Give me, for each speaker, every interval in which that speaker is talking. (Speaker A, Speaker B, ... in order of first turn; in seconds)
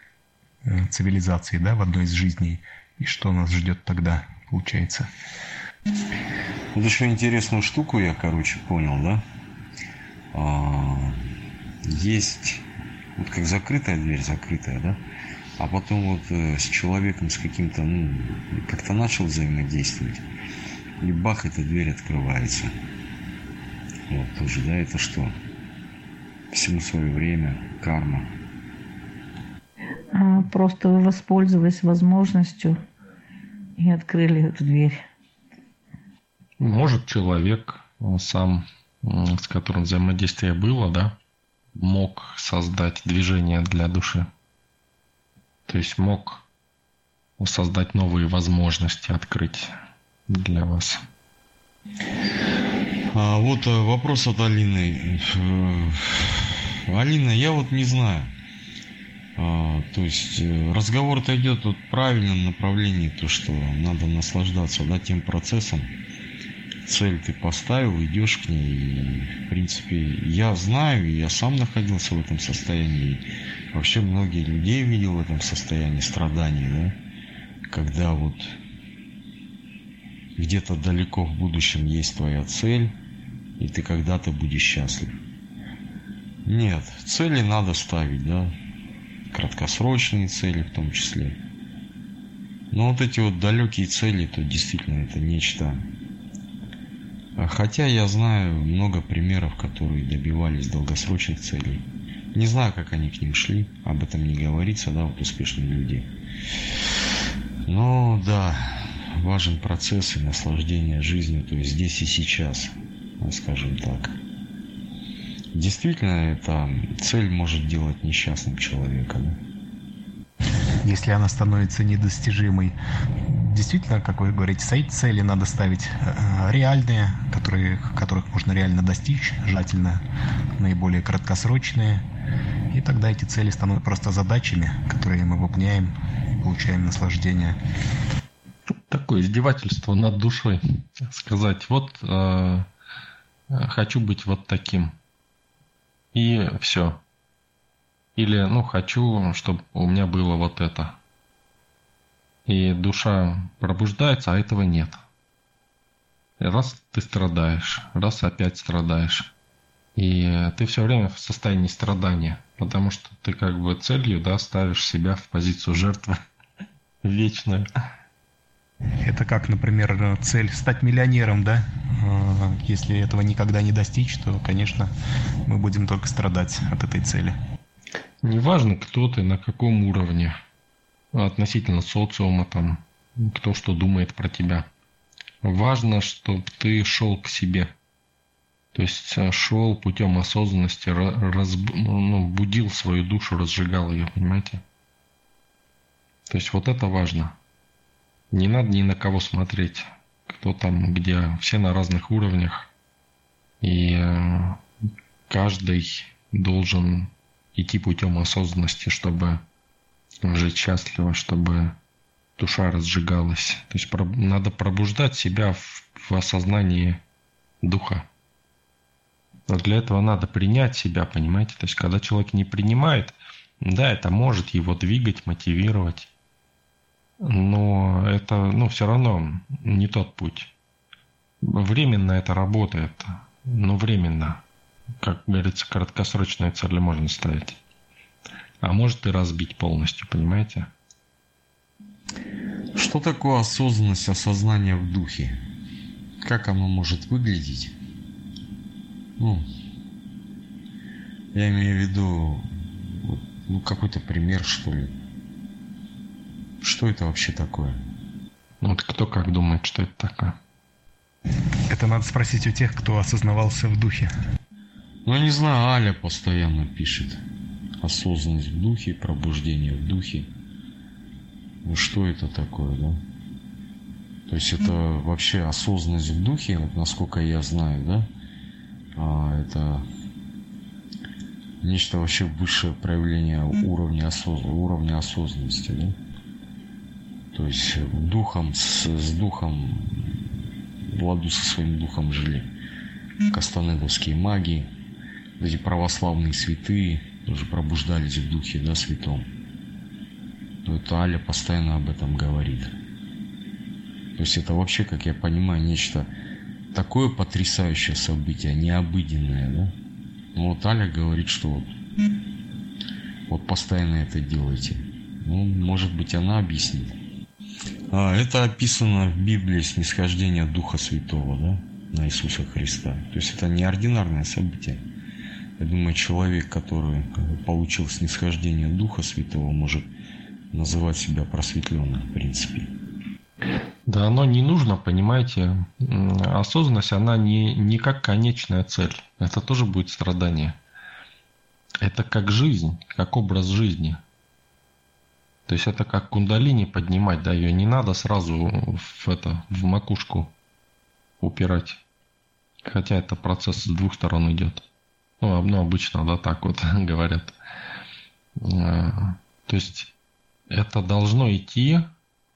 Speaker A: 0.6-5.1, 120.8-122.7, 123.2-130.0, 130.6-132.0, 132.7-137.6, 169.0-174.9, 175.4-177.3, 261.7-264.1
Speaker B: 6.7-9.2, 10.3-11.2, 11.8-12.6, 13.2-15.0, 15.6-20.2, 21.0-22.7, 24.1-25.4, 26.5-28.3, 53.1-58.3, 59.4-65.9, 66.8-77.0, 77.7-78.5, 80.3-83.0, 83.6-85.2, 86.4-88.5, 89.3-91.4, 92.7-95.8, 97.4-106.1, 107.6-114.2, 115.5-119.4, 242.8-245.4, 246.2-247.8, 249.2-249.4, 251.3-254.9, 256.6-257.8, 265.0-267.2, 267.8-270.3, 271.6-273.0, 274.3-278.1, 278.9-279.9, 281.6-285.9, 287.3-290.3, 290.9-292.5, 293.3-294.7, 295.4-299.3, 300.6-302.7, 304.1-306.1, 306.7-309.8, 310.3-311.7, 313.3-317.0, 317.9-324.8, 325.6-329.9, 330.5-332.7
Speaker C: 30.3-32.6, 33.8-34.1, 34.7-34.9
Speaker D: 36.6-41.1, 41.8-44.3, 45.7-46.4, 47.4-49.7, 50.3-51.0, 138.9-142.7, 143.5-144.9, 146.1-147.0, 148.2-151.0, 152.5-155.0, 156.4-159.3, 159.9-166.2, 167.0-167.7, 178.2-180.4, 181.1-184.7, 185.4-187.7, 188.7-194.6, 196.3-197.3, 198.3-202.7, 203.6-204.6, 205.3-209.4, 210.2-211.8, 212.4-217.0, 217.6-218.1, 219.5-226.1, 227.2-230.5, 231.4-234.4, 235.0-237.6, 238.6-240.7, 258.6-260.4, 333.9-340.6, 341.8-344.0, 345.5-350.3, 351.2-351.8, 352.6-354.6, 355.2-357.4, 358.4-359.9, 360.5-361.9